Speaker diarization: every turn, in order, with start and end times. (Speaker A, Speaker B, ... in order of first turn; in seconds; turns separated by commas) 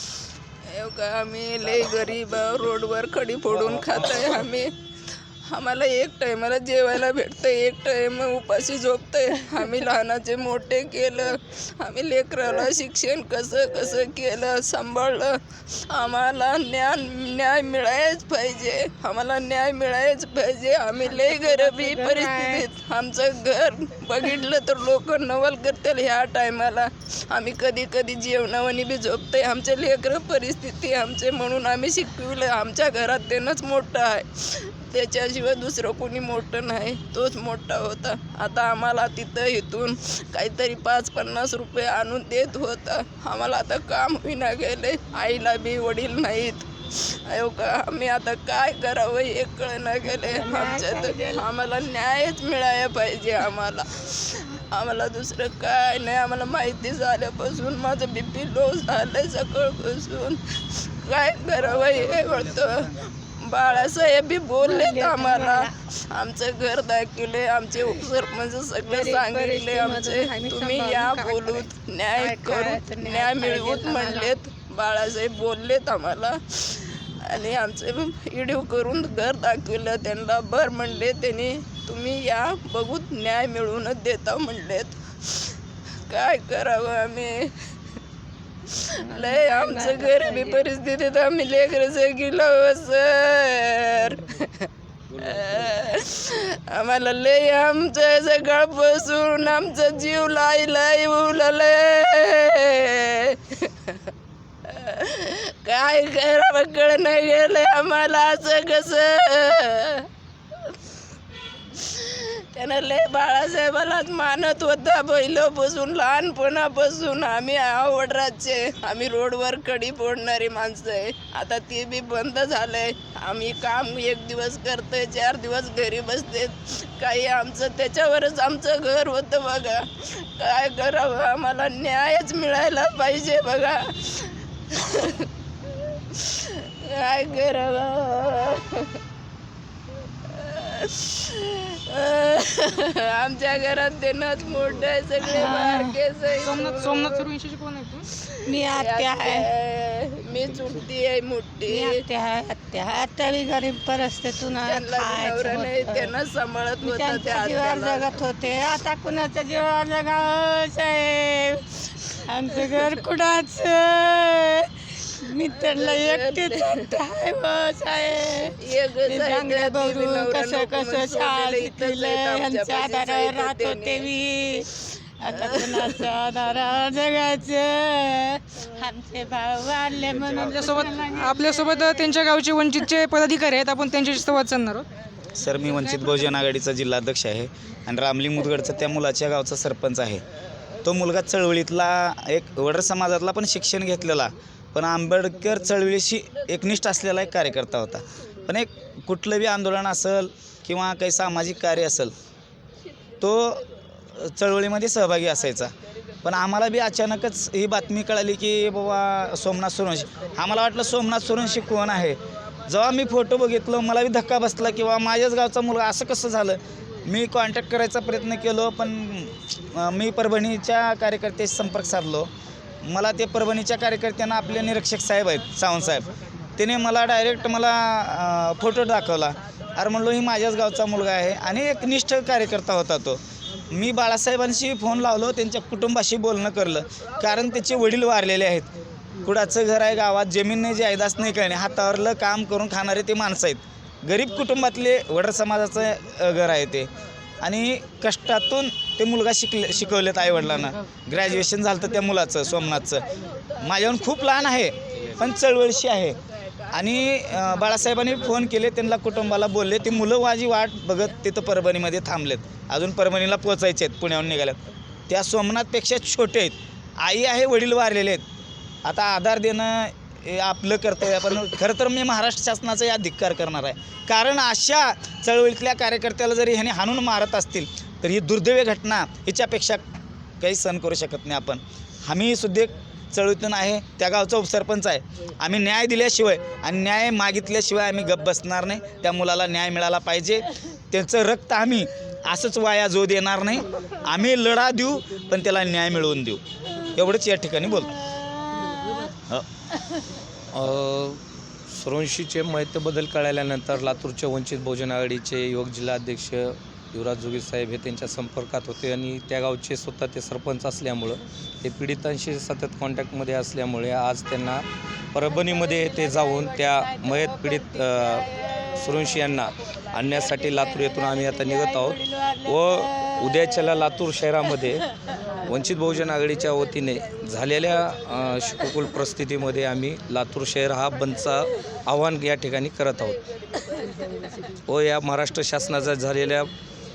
Speaker A: 0.7-4.7, Speaker A: 5.5-15.4, Speaker A: 15.9-87.5, Speaker B: 21.1-22.6, Speaker B: 50.1-51.4, Speaker B: 64.6-65.7, Speaker B: 68.8-74.3, Speaker A: 88.7-104.0, Speaker B: 89.0-90.6, Speaker A: 104.7-110.1, Speaker A: 111.7-135.3, Speaker A: 136.1-138.9, Speaker A: 140.3-147.2, Speaker B: 145.2-146.0, Speaker C: 146.3-148.1, Speaker B: 148.4-149.5, Speaker A: 148.7-151.9, Speaker B: 151.7-156.1, Speaker A: 154.6-158.7, Speaker B: 156.8-182.2, Speaker A: 162.5-163.0, Speaker A: 165.4-166.8, Speaker A: 168.6-174.1, Speaker A: 175.3-176.0, Speaker C: 180.4-184.8, Speaker D: 185.3-190.2, Speaker D: 190.8-202.1, Speaker D: 203.2-205.7, Speaker D: 206.2-222.3, Speaker D: 222.8-238.7, Speaker D: 239.2-246.9, Speaker D: 247.4-253.0, Speaker A: 252.8-258.5, Speaker D: 253.6-256.1, Speaker D: 256.7-264.6, Speaker D: 265.1-268.2, Speaker D: 268.8-279.8, Speaker D: 280.4-296.4, Speaker D: 296.9-297.9, Speaker B: 298.1-299.1, Speaker E: 300.5-324.8, Speaker B: 315.3-319.3, Speaker B: 320.1-323.8, Speaker E: 325.4-333.2, Speaker A: 333.5-334.3, Speaker E: 334.6-336.5